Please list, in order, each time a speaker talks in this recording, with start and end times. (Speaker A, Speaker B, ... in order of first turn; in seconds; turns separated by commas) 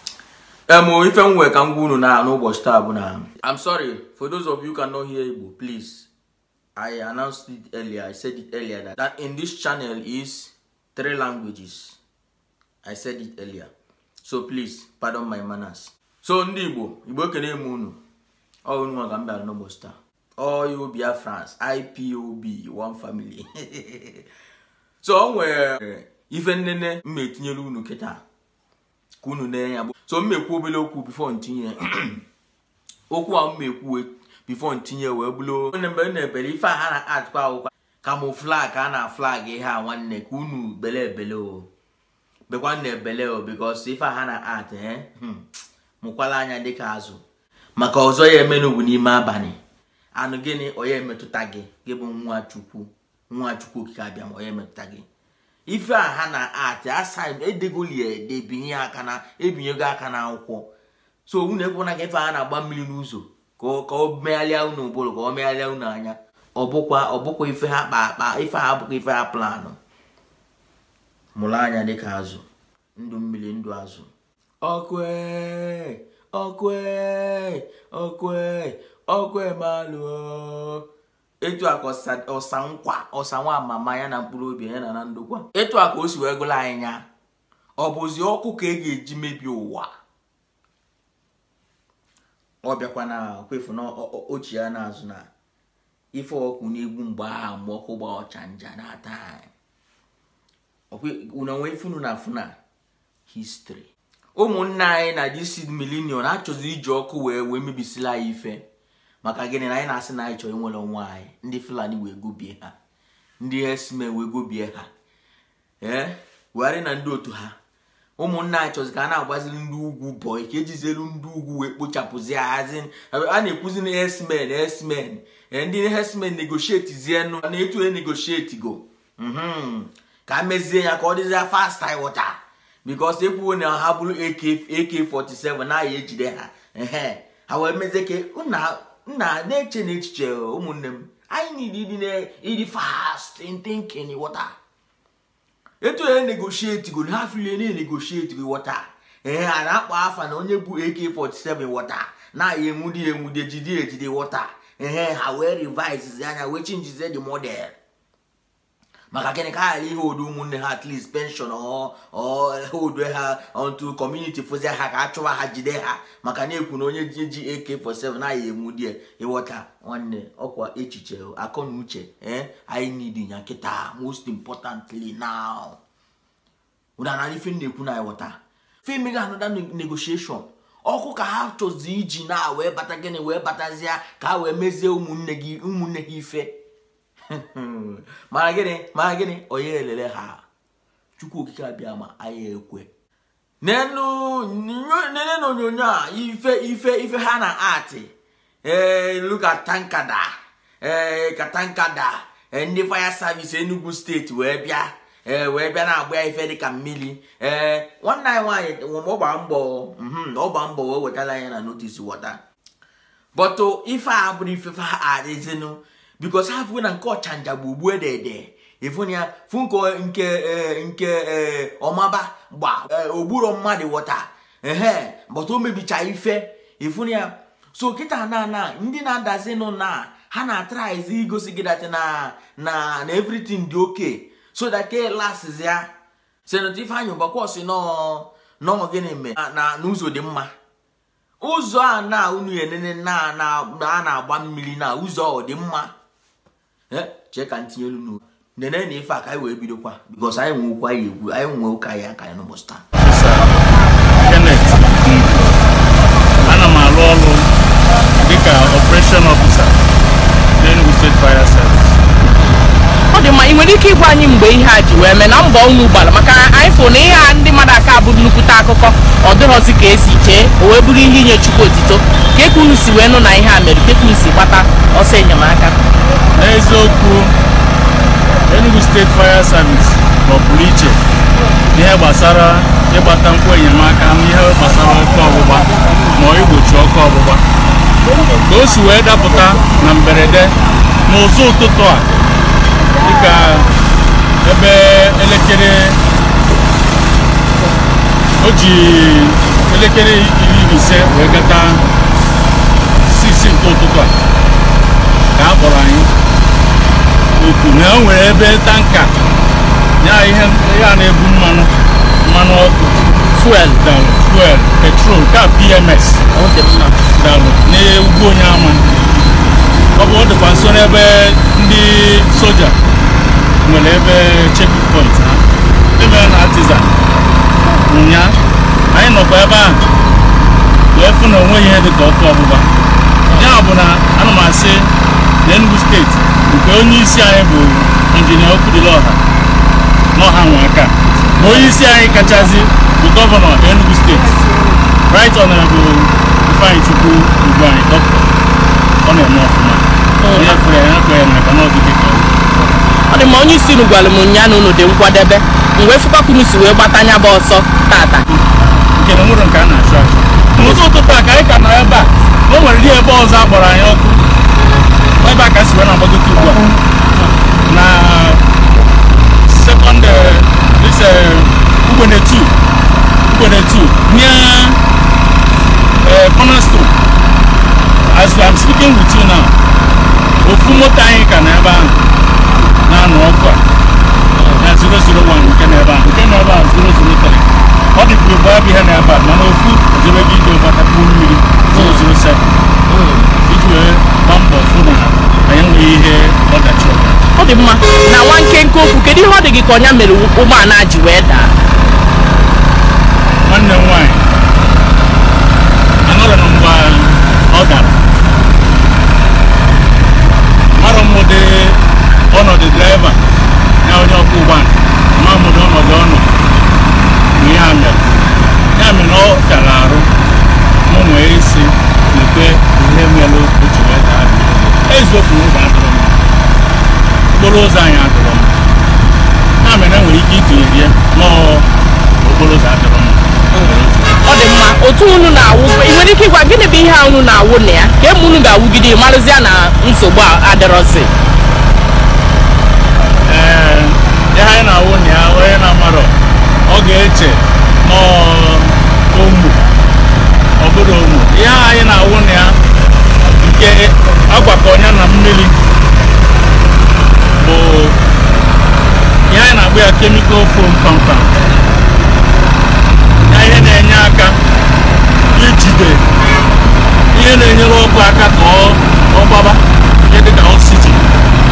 Speaker A: 0.7-6.1, Speaker A: 6.8-12.0, Speaker A: 12.8-13.7, Speaker A: 14.2-18.0, Speaker A: 18.7-24.2, Speaker A: 25.0-28.2, Speaker A: 29.2-32.2, Speaker A: 33.1-41.7, Speaker A: 42.5-45.5, Speaker A: 46.0-47.2, Speaker A: 47.8-49.6, Speaker A: 50.1-55.1, Speaker A: 55.7-60.7, Speaker A: 61.3-69.8, Speaker A: 71.3-72.4, Speaker A: 73.0-74.1, Speaker A: 74.6-80.8, Speaker A: 81.4-87.0, Speaker A: 87.8-89.9, Speaker A: 92.6-95.3, Speaker A: 96.1-99.5, Speaker A: 100.9-102.5, Speaker A: 103.3-108.6, Speaker A: 109.2-112.7, Speaker A: 113.4-114.9, Speaker A: 115.8-117.5, Speaker A: 118.2-144.5, Speaker A: 145.8-157.8, Speaker A: 159.1-175.8, Speaker A: 177.0-186.5, Speaker A: 187.3-190.4, Speaker A: 191.2-192.9, Speaker A: 193.6-198.1, Speaker A: 198.6-200.3, Speaker A: 200.8-212.4, Speaker A: 213.3-235.9, Speaker A: 236.5-240.5, Speaker A: 241.4-245.9, Speaker A: 246.9-252.8, Speaker B: 253.0-253.6, Speaker B: 254.2-255.5, Speaker B: 256.4-257.5, Speaker B: 258.2-259.8, Speaker B: 260.6-262.0, Speaker C: 263.1-275.8, Speaker B: 276.4-277.3, Speaker B: 278.5-281.0, Speaker B: 281.7-287.4, Speaker B: 288.4-292.1, Speaker B: 293.0-293.7, Speaker B: 294.4-296.0, Speaker B: 298.4-301.9, Speaker B: 303.0-304.1, Speaker B: 305.4-306.1, Speaker B: 307.3-309.1, Speaker B: 310.0-311.7, Speaker B: 312.2-313.1, Speaker C: 313.3-313.8, Speaker B: 313.8-316.2, Speaker C: 316.3-317.0, Speaker B: 317.2-318.9, Speaker B: 320.0-322.8, Speaker B: 323.6-325.4, Speaker B: 326.0-326.9, Speaker B: 327.9-328.4, Speaker B: 328.9-329.8, Speaker B: 330.9-332.7, Speaker B: 333.3-334.9, Speaker B: 335.4-339.2, Speaker B: 340.1-344.4, Speaker B: 345.1-348.3, Speaker B: 349.0-352.3, Speaker C: 350.2-350.6, Speaker C: 353.1-358.3, Speaker B: 359.0-364.2, Speaker B: 365.2-366.6, Speaker B: 367.7-368.4, Speaker B: 369.4-372.5, Speaker B: 373.3-374.8, Speaker B: 376.0-376.9, Speaker B: 378.1-379.5, Speaker B: 380.4-382.0, Speaker B: 382.9-383.6, Speaker C: 384.4-384.6, Speaker B: 384.6-392.6, Speaker C: 391.7-392.0, Speaker C: 392.9-393.3, Speaker B: 393.4-397.2, Speaker C: 397.4-401.6, Speaker B: 403.4-404.2, Speaker B: 406.1-408.0, Speaker B: 410.8-411.8, Speaker B: 412.3-413.2, Speaker B: 413.8-416.3, Speaker B: 417.4-418.0, Speaker B: 418.7-420.1, Speaker B: 420.9-426.2, Speaker B: 427.4-428.5, Speaker B: 429.6-431.7, Speaker B: 432.2-434.2, Speaker C: 434.2-441.1, Speaker B: 443.2-446.1, Speaker B: 446.7-449.6, Speaker B: 450.6-452.6, Speaker B: 453.4-455.6, Speaker B: 457.4-458.0, Speaker B: 459.3-461.4, Speaker B: 463.3-464.4, Speaker B: 465.3-466.0, Speaker B: 467.1-471.0